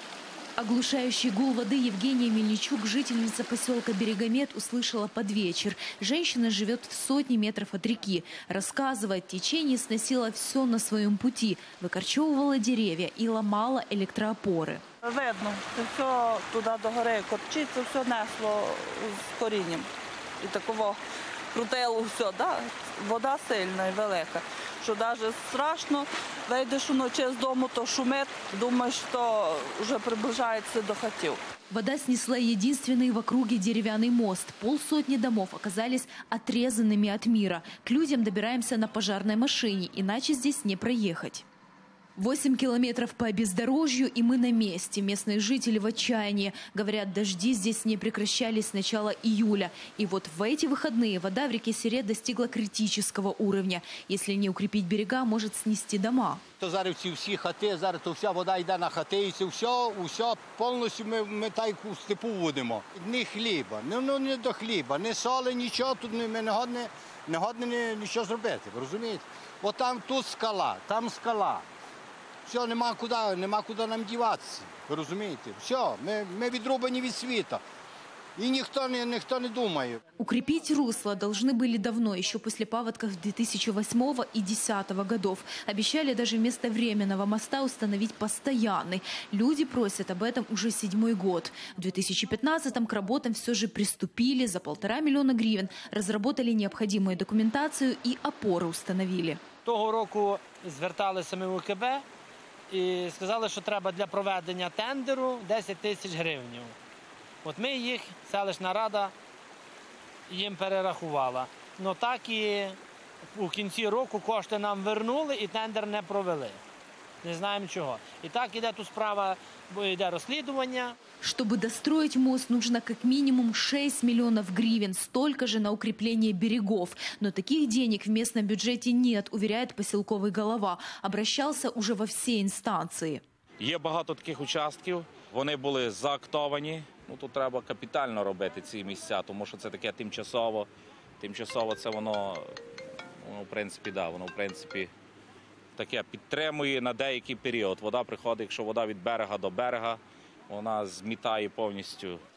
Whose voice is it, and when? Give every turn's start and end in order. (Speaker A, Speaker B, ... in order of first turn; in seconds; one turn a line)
Speaker A: 0.6-14.8
Speaker B: 15.1-19.8
Speaker B: 20.5-21.0
Speaker B: 21.6-31.4
Speaker A: 31.7-41.4
Speaker A: 42.2-56.4
Speaker C: 56.6-71.7
Speaker C: 72.5-77.6
Speaker C: 78.4-80.0
Speaker A: 80.2-99.4
Speaker D: 99.7-102.0
Speaker D: 102.7-106.8
Speaker D: 107.4-109.1
Speaker D: 110.3-112.8
Speaker D: 113.3-116.6
Speaker D: 117.2-121.0
Speaker A: 121.2-133.2
Speaker E: 133.6-140.7
Speaker E: 141.2-142.5
Speaker E: 143.2-144.9
Speaker E: 145.8-152.2